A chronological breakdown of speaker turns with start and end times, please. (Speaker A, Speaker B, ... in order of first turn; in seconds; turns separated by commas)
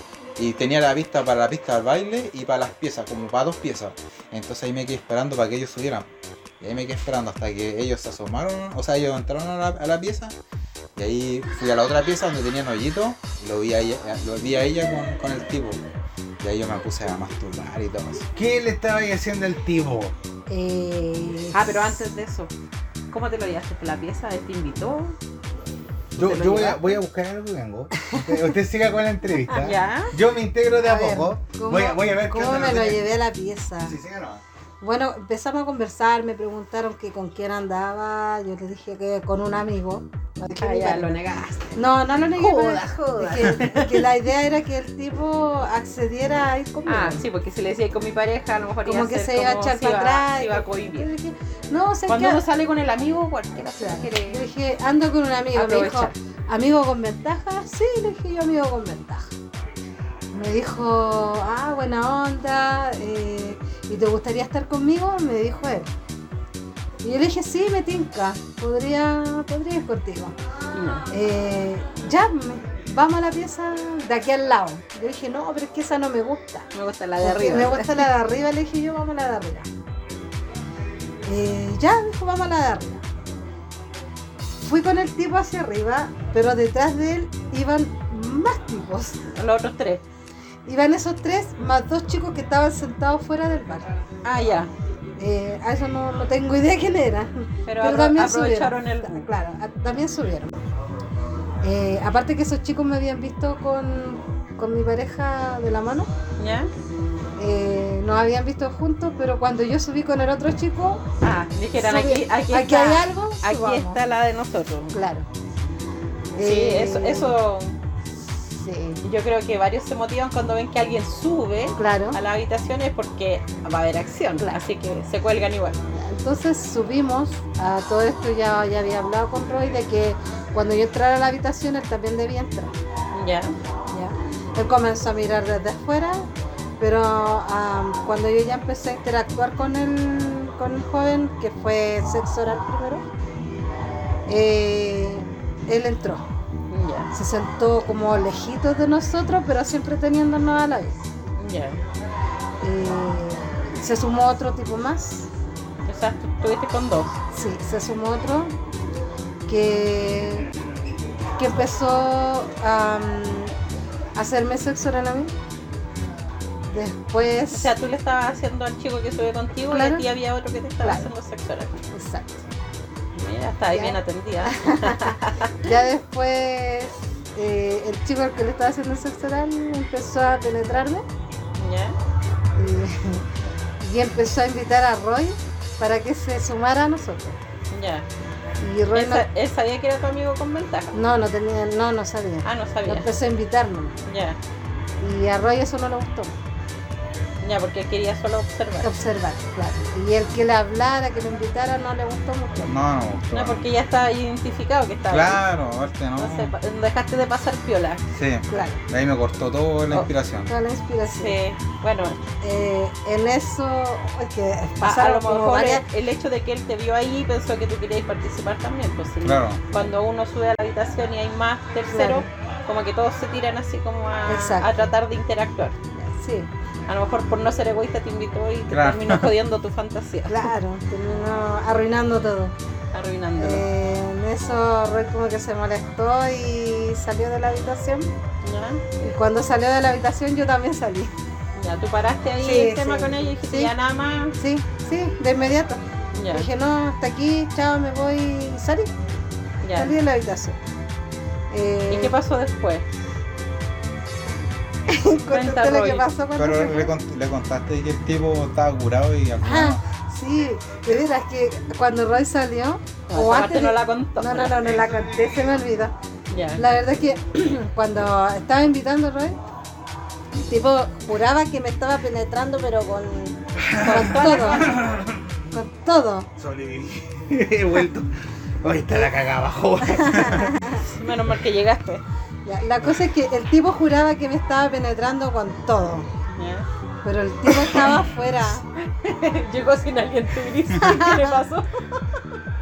Speaker A: 0.4-6.1, Speaker A: 6.6-10.3, Speaker A: 10.9-15.8, Speaker A: 16.4-18.3, Speaker B: 18.4-20.1, Speaker C: 20.5-22.0, Speaker D: 21.5-22.5, Speaker D: 23.1-25.1, Speaker B: 26.1-33.0, Speaker D: 26.2-26.9, Speaker C: 28.1-28.4, Speaker D: 29.6-30.1, Speaker C: 30.8-33.9, Speaker B: 33.9-34.4, Speaker C: 34.8-41.2, Speaker D: 40.6-41.8, Speaker C: 41.7-47.2, Speaker D: 42.4-44.0, Speaker D: 46.9-51.1, Speaker C: 48.9-52.4, Speaker D: 52.1-54.4, Speaker C: 53.8-59.3, Speaker D: 55.5-56.1, Speaker C: 60.3-65.9, Speaker C: 67.0-70.3, Speaker D: 70.7-71.0, Speaker C: 71.1-76.7, Speaker D: 76.7-78.1, Speaker C: 77.2-79.7, Speaker C: 81.2-83.0, Speaker C: 84.6-89.2, Speaker D: 89.3-90.0, Speaker C: 90.7-93.9, Speaker D: 94.2-94.7, Speaker C: 95.2-100.6, Speaker D: 97.7-99.3, Speaker C: 101.6-106.1, Speaker D: 106.4-106.7, Speaker C: 107.4-111.0, Speaker D: 111.2-114.9, Speaker C: 111.8-114.0, Speaker C: 114.9-115.3, Speaker C: 116.3-117.3, Speaker D: 116.4-117.7, Speaker C: 118.5-119.0, Speaker D: 119.0-125.8, Speaker C: 121.8-122.2, Speaker C: 125.9-132.7, Speaker D: 133.1-133.5, Speaker C: 133.9-136.3, Speaker C: 136.8-143.0, Speaker C: 144.3-146.2, Speaker D: 146.7-147.1, Speaker C: 147.1-151.0, Speaker D: 151.4-151.8, Speaker C: 152.6-155.3, Speaker D: 155.9-157.2, Speaker C: 157.3-158.5, Speaker C: 159.5-160.5, Speaker C: 161.4-163.5, Speaker C: 164.2-165.3, Speaker C: 166.7-167.7, Speaker D: 167.5-171.8, Speaker C: 169.7-170.0, Speaker C: 171.9-172.4, Speaker D: 173.2-175.5, Speaker C: 173.7-181.0, Speaker D: 181.6-181.9, Speaker C: 182.6-183.2, Speaker C: 183.8-187.4, Speaker D: 187.7-188.1, Speaker C: 188.6-189.2, Speaker D: 188.9-190.9, Speaker C: 190.9-193.9, Speaker D: 192.4-193.1, Speaker D: 194.1-194.4, Speaker C: 195.0-196.3, Speaker D: 197.4-198.9, Speaker C: 198.8-202.8, Speaker A: 202.6-203.7, Speaker D: 203.3-205.4, Speaker A: 205.1-206.5, Speaker D: 206.2-208.0, Speaker A: 208.1-210.5, Speaker C: 208.5-208.8, Speaker C: 210.5-211.4, Speaker D: 211.1-212.2, Speaker C: 212.4-215.8, Speaker D: 214.8-225.7, Speaker A: 219.2-219.6, Speaker C: 221.9-222.3, Speaker C: 224.3-224.7, Speaker C: 225.9-226.5, Speaker D: 226.9-230.5, Speaker A: 228.7-229.3, Speaker C: 230.3-232.5, Speaker D: 232.9-233.7, Speaker C: 233.4-238.1, Speaker D: 238.4-238.9, Speaker C: 239.0-241.1, Speaker D: 241.6-244.3, Speaker C: 242.4-243.7, Speaker C: 244.3-248.9, Speaker D: 246.1-246.5, Speaker D: 249.6-249.9, Speaker C: 249.8-250.6, Speaker C: 251.5-252.1, Speaker D: 251.9-252.8, Speaker C: 254.9-256.9, Speaker D: 255.3-256.1, Speaker A: 256.4-259.8, Speaker C: 259.4-265.9, Speaker D: 263.1-264.7, Speaker D: 266.3-266.6, Speaker C: 266.6-269.4, Speaker C: 270.4-274.7, Speaker B: 273.7-274.1, Speaker D: 273.8-274.8, Speaker B: 274.6-275.3, Speaker C: 275.5-276.3, Speaker B: 276.4-278.1, Speaker B: 278.6-280.5, Speaker C: 279.9-280.8, Speaker D: 280.8-282.0, Speaker C: 282.4-286.1, Speaker D: 286.4-286.7, Speaker C: 287.0-288.6, Speaker D: 289.0-291.6, Speaker C: 290.8-291.2